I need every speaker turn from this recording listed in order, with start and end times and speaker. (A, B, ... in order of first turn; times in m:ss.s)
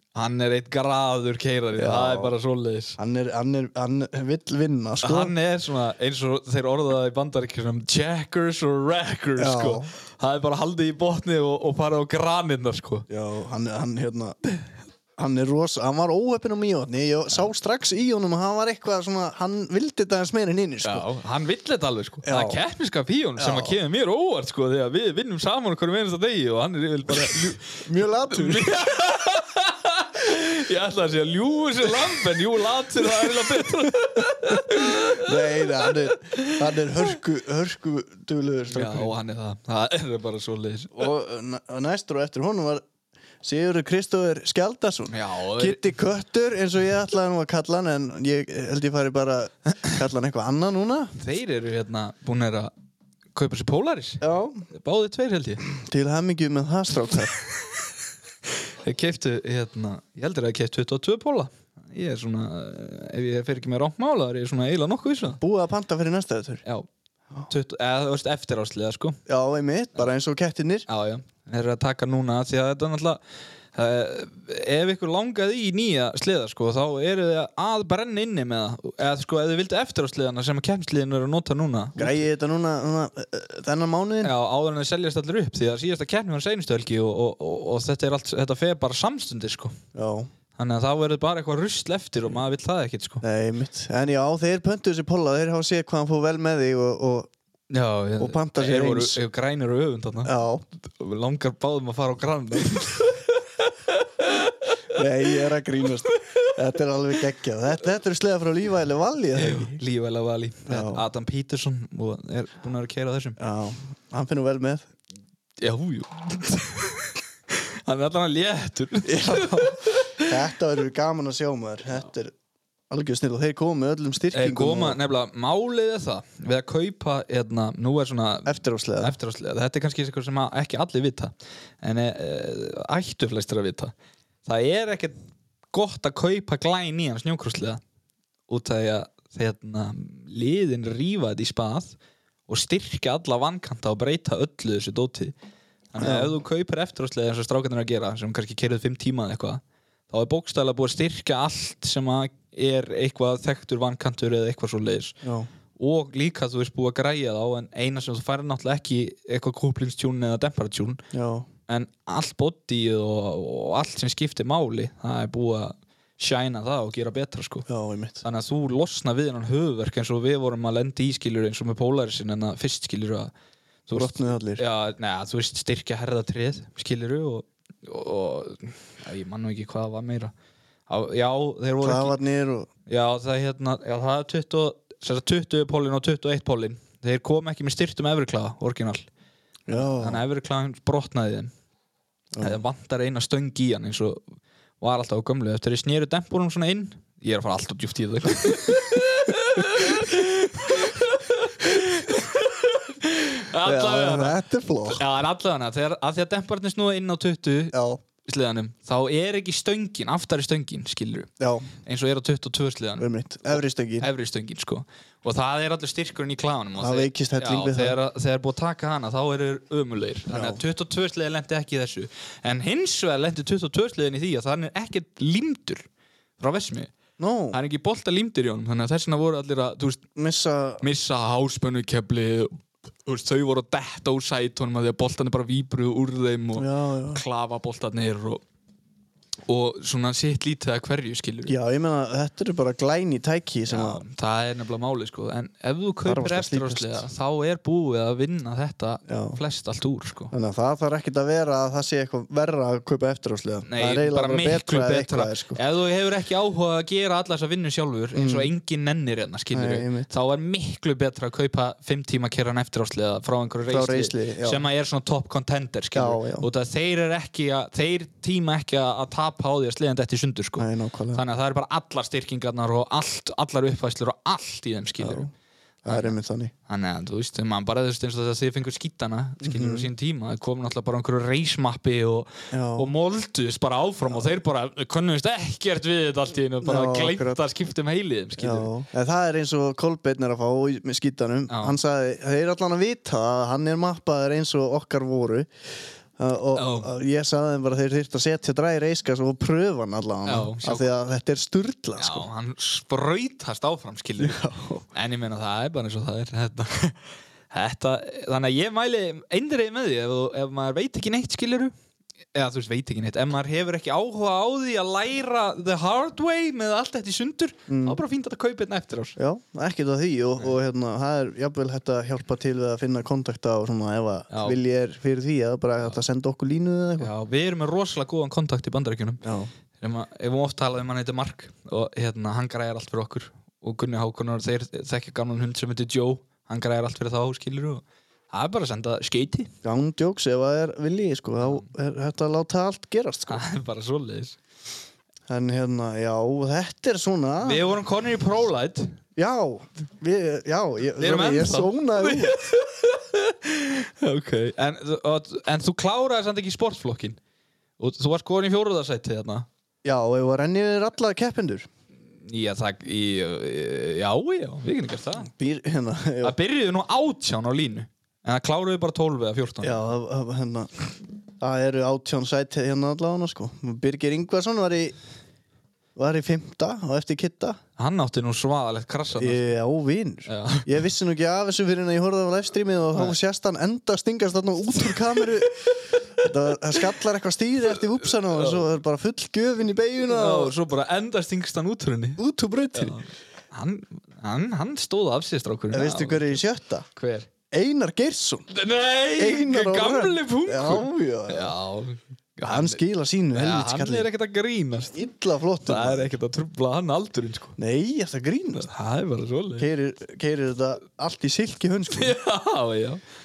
0:00.1-0:03.0 A
0:01.8-0:02.3 B
0:03.0-0:05.3 B
0:05.0-0:13.1 A
0:09.4-0:09.9 B
0:13.1-0:14.4 B
0:15.2-0:21.0 B
0:20.8-0:37.1 A
0:22.2-0:22.6 B
0:23.4-0:23.8 B
0:27.8-0:28.9 B
0:33.2-0:33.5 B
0:34.2-0:39.1 B
0:38.7-0:41.1 A
0:40.9-0:42.8 B
0:43.4-0:51.1 B
0:45.1-0:45.9 A
0:51.2-0:52.7 A
0:53.3-0:55.6 A
0:54.2-0:54.6 B
0:55.6-0:57.3 B
0:58.8-1:05.4 A
1:05.4-1:06.6 B
1:07.4-1:09.2 A
1:09.3-1:10.8 B
1:10.9-1:13.2 A
1:13.7-1:22.2 A
1:22.0-1:24.3 B
1:24.2-1:29.8 A
1:29.9-1:30.3 B
1:30.6-1:33.2 A
1:33.2-1:37.3 B
1:37.7-1:45.3 A
1:38.2-1:39.2 B
1:40.2-1:40.6 B
1:44.9-1:49.8 B
1:46.0-1:46.6 A
1:49.3-1:53.4 A
1:50.7-1:51.0 B
1:53.4-1:54.8 B
1:55.6-2:00.3 A
1:59.0-2:02.3 B
2:02.9-2:05.0 B
2:04.3-2:13.9 A
2:08.4-2:09.1 B
2:14.4-2:15.2 A
2:15.7-2:17.8 A
2:18.5-2:21.9 A
2:22.5-2:25.3 A
2:25.9-2:35.2 A
2:26.0-2:26.3 B
2:35.2-2:35.5 B
2:35.8-2:41.0 A
2:41.1-2:41.5 B
2:41.7-2:47.6 A
2:47.7-2:48.2 B
2:48.2-2:53.3 A
2:53.9-3:00.3 A
2:53.9-2:54.6 B
3:00.9-3:02.2 A
3:01.8-3:02.7 B
3:02.9-3:09.1 A
3:09.7-3:10.2 B
3:09.8-3:11.5 A
3:12.3-3:12.6 B
3:12.4-3:14.2 A
3:14.8-3:31.3 A
3:23.6-3:25.0 B
3:27.7-3:28.0 B
3:31.4-3:31.7 B
3:31.8-3:45.9 A
3:33.0-3:34.1 B
3:36.8-3:38.0 B
3:40.3-3:40.6 B
3:46.4-3:46.9 A
3:47.2-3:47.6 B
3:47.5-3:50.0 A
3:50.2-3:50.8 B
3:50.8-3:58.4 A
3:56.6-3:57.2 B
3:59.5-4:01.6 A
4:01.5-4:04.0 B
4:03.7-4:10.3 A
4:06.0-4:07.0 B
4:09.1-4:09.4 B
4:10.3-4:15.6 B
4:13.7-4:35.3 A
4:18.1-4:18.5 B
4:19.5-4:20.1 B
4:23.7-4:24.6 B
4:25.9-4:26.5 B
4:30.6-4:31.2 B
4:35.0-4:35.3 B
4:35.8-4:36.5 B
4:35.8-4:36.1 A
4:36.7-4:48.7 A
4:39.4-4:39.9 B
4:42.5-4:42.9 B
4:46.6-4:47.4 B
4:48.4-5:02.3 B
4:51.5-4:51.8 A
4:56.5-4:56.9 A
5:00.2-5:00.9 A
5:02.0-5:11.7 A
5:04.2-5:04.8 B
5:12.3-5:19.2 A
5:17.7-5:18.0 B
5:19.2-5:27.1 B
5:24.3-5:24.6 A
5:27.0-5:29.2 A
5:29.2-5:29.5 B
5:29.8-5:39.5 A
5:39.6-5:43.4 B
5:41.4-5:41.7 A
5:43.3-5:44.4 A
5:45.3-5:47.6 B
5:47.4-5:49.0 A
5:49.2-5:52.4 B
5:51.0-5:57.2 A
5:57.8-5:59.5 A
5:59.8-6:01.7 B
6:02.2-6:05.3 A
6:05.2-6:06.3 B
6:06.2-6:09.8 A
6:09.6-6:15.0 B
6:16.0-6:17.6 B
6:17.8-6:19.5 A
6:19.2-6:30.5 B
6:20.3-6:20.7 A
6:25.7-6:26.0 A
6:28.2-6:28.6 A
6:30.1-6:32.2 A
6:32.2-6:33.0 B
6:32.7-6:36.4 A
6:35.7-6:36.9 B
6:36.9-6:37.3 A
6:37.5-6:38.5 B
6:38.5-6:42.8 A
6:39.2-6:41.5 B
6:42.4-6:44.1 B
6:43.3-6:45.0 A
6:44.9-6:46.1 B
6:45.6-6:47.6 A
6:47.6-6:48.7 B
6:48.6-6:49.7 A
6:49.6-6:52.2 B
6:51.9-6:53.0 A